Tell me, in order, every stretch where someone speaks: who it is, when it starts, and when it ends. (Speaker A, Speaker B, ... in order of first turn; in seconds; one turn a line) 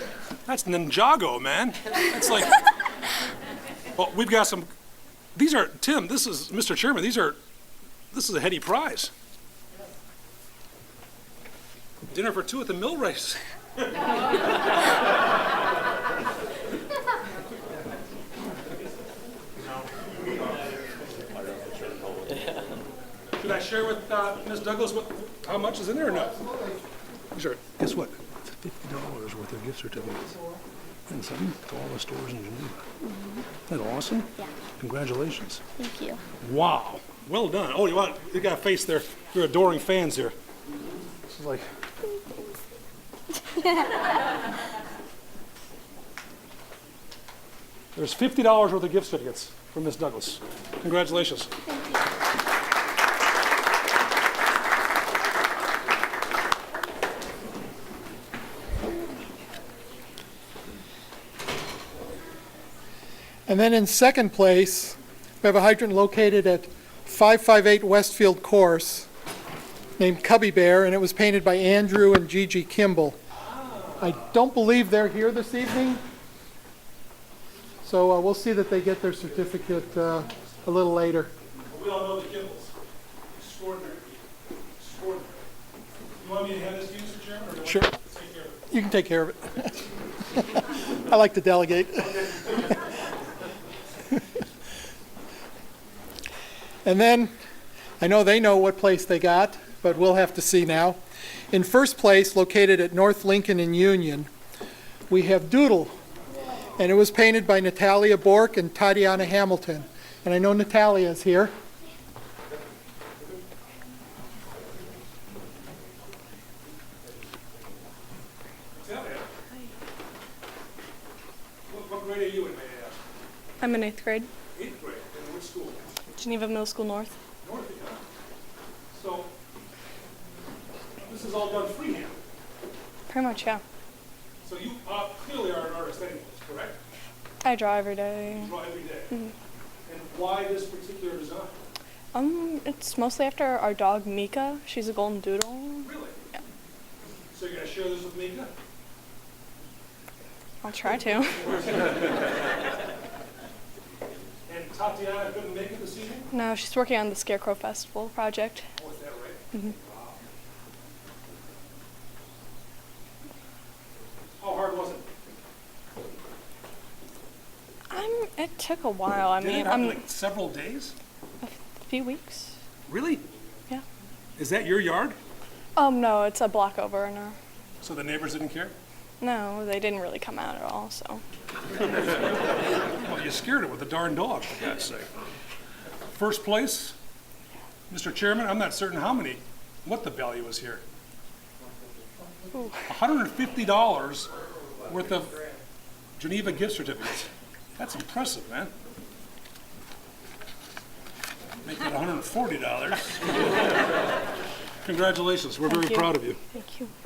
Speaker A: 0.5-2.6
Speaker A: 4.0-4.7
Speaker A: 5.3-7.4
Speaker A: 8.1-9.1
Speaker A: 12.1-13.4
Speaker A: 23.4-26.4
Speaker B: 26.2-26.8
Speaker A: 27.3-30.4
Speaker A: 31.1-32.8
Speaker C: 33.1-33.4
Speaker A: 33.7-35.6
Speaker C: 35.8-36.2
Speaker A: 36.4-40.3
Speaker A: 41.3-41.7
Speaker A: 48.0-51.5
Speaker B: 63.5-69.1
Speaker B: 70.0-73.2
Speaker A: 73.3-74.3
Speaker B: 74.0-76.0
Speaker B: 77.8-81.3
Speaker A: 81.7-82.7
Speaker A: 83.3-84.3
Speaker A: 84.8-85.5
Speaker A: 86.2-88.6
Speaker B: 88.7-89.8
Speaker B: 90.4-92.8
Speaker B: 96.8-97.3
Speaker B: 98.0-101.0
Speaker B: 101.5-104.3
Speaker B: 105.1-106.0
Speaker B: 106.8-111.5
Speaker A: 118.8-119.3
Speaker A: 121.7-123.0
Speaker C: 123.6-124.3
Speaker A: 124.5-125.9
Speaker C: 126.2-127.2
Speaker A: 127.4-128.0
Speaker A: 128.9-129.3
Speaker A: 131.0-132.2
Speaker C: 133.1-133.6
Speaker A: 134.4-136.8
Speaker C: 137.4-138.5
Speaker A: 138.3-139.1
Speaker A: 139.9-141.6
Speaker C: 142.1-145.9
Speaker A: 145.8-146.2
Speaker A: 147.3-148.5
Speaker C: 150.6-151.6
Speaker A: 151.4-152.1
Speaker A: 154.5-156.3
Speaker C: 156.3-158.7
Speaker A: 158.8-160.1
Speaker A: 164.4-165.1
Speaker C: 167.9-170.0
Speaker A: 169.4-170.9
Speaker C: 171.4-172.5
Speaker A: 172.9-173.2
Speaker A: 174.4-175.2
Speaker C: 175.8-177.4
Speaker A: 177.8-178.8
Speaker C: 179.2-181.2
Speaker A: 182.9-185.1
Speaker A: 186.1-187.0
Speaker A: 187.9-190.8
Speaker C: 192.5-192.8
Speaker A: 192.9-194.3
Speaker A: 194.9-195.3
Speaker A: 196.2-198.7
Speaker A: 201.7-203.6
Speaker A: 204.8-206.4
Speaker C: 205.7-206.9